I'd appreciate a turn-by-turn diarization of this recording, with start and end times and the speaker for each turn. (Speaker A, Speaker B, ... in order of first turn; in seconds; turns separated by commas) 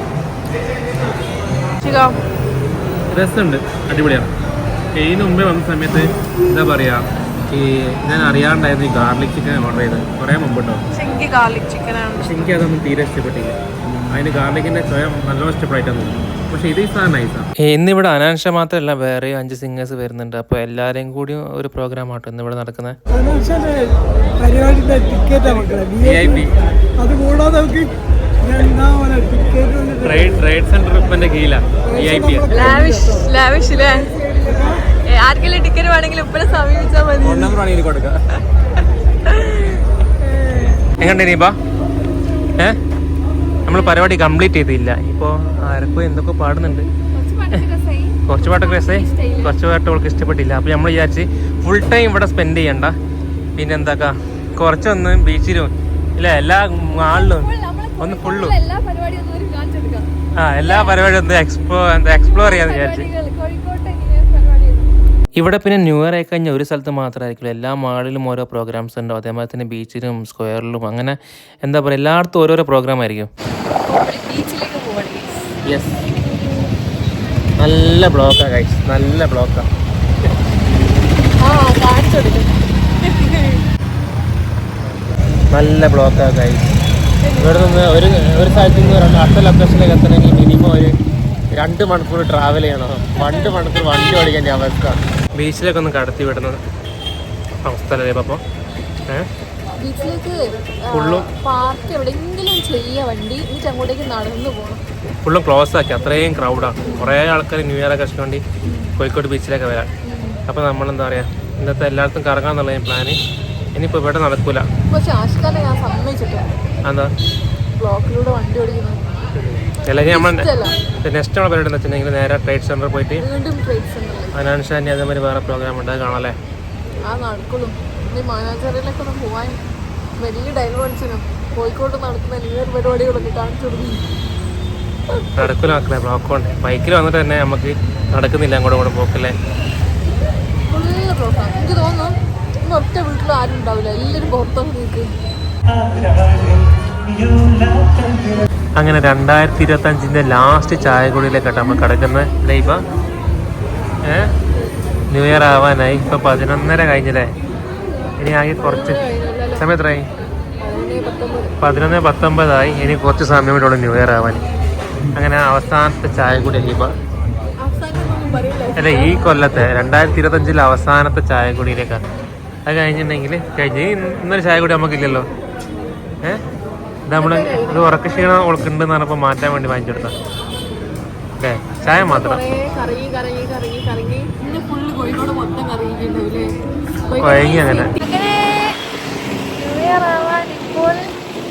Speaker A: 1.8-2.1, Speaker B: 3.1-4.3, Speaker B: 4.9-10.8, Speaker A: 10.9-12.5, Speaker B: 12.2-13.6, Speaker B: 14.1-23.0, Speaker C: 23.2-26.0, Speaker B: 25.9-26.6, Speaker C: 27.0-27.9, Speaker C: 28.5-30.0, Speaker B: 29.9-32.6, Speaker A: 32.4-37.6, Speaker B: 37.2-38.2, Speaker A: 39.2-40.8, Speaker B: 41.0-41.5, Speaker B: 43.7-46.9, Speaker A: 47.1-49.5, Speaker B: 48.3-52.9, Speaker B: 53.5-57.5, Speaker A: 57.0-60.1, Speaker B: 58.0-58.6, Speaker B: 60.4-63.1, Speaker A: 60.6-61.2, Speaker A: 62.3-64.9, Speaker B: 65.3-73.3, Speaker A: 73.8-75.6, Speaker B: 75.6-76.0, Speaker B: 77.6-79.7, Speaker A: 81.4-83.6, Speaker B: 85.5-86.8, Speaker A: 87.2-87.8, Speaker B: 87.4-90.9, Speaker B: 91.5-96.6, Speaker A: 93.2-94.3, Speaker B: 97.6-98.4, Speaker A: 99.8-104.8, Speaker B: 100.9-101.3, Speaker B: 105.2-108.4, Speaker A: 106.8-107.2, Speaker A: 108.7-108.9, Speaker B: 109.0-109.9, Speaker A: 110.0-110.4, Speaker B: 110.5-113.2, Speaker B: 113.8-114.7, Speaker A: 114.9-116.5, Speaker B: 116.8-117.1, Speaker A: 117.8-119.1, Speaker B: 119.3-120.5, Speaker A: 120.1-120.8, Speaker B: 121.0-123.2, Speaker A: 123.2-124.3, Speaker B: 124.3-126.3, Speaker A: 127.0-129.6, Speaker A: 130.2-134.0, Speaker A: 135.2-135.5, Speaker B: 135.3-139.3, Speaker A: 140.7-145.1, Speaker B: 146.1-146.5, Speaker B: 148.8-152.8, Speaker B: 154.0-154.3, Speaker B: 155.1-157.3, Speaker B: 158.2-159.0, Speaker A: 158.6-159.7, Speaker B: 159.6-160.1, Speaker A: 160.6-161.5, Speaker B: 161.6-164.4, Speaker B: 165.2-166.9, Speaker A: 167.6-169.2, Speaker B: 168.8-172.0, Speaker B: 172.7-175.2, Speaker B: 177.1-180.2, Speaker A: 177.1-178.1, Speaker B: 181.4-182.4, Speaker A: 181.9-188.8, Speaker B: 187.2-187.9, Speaker A: 189.6-191.2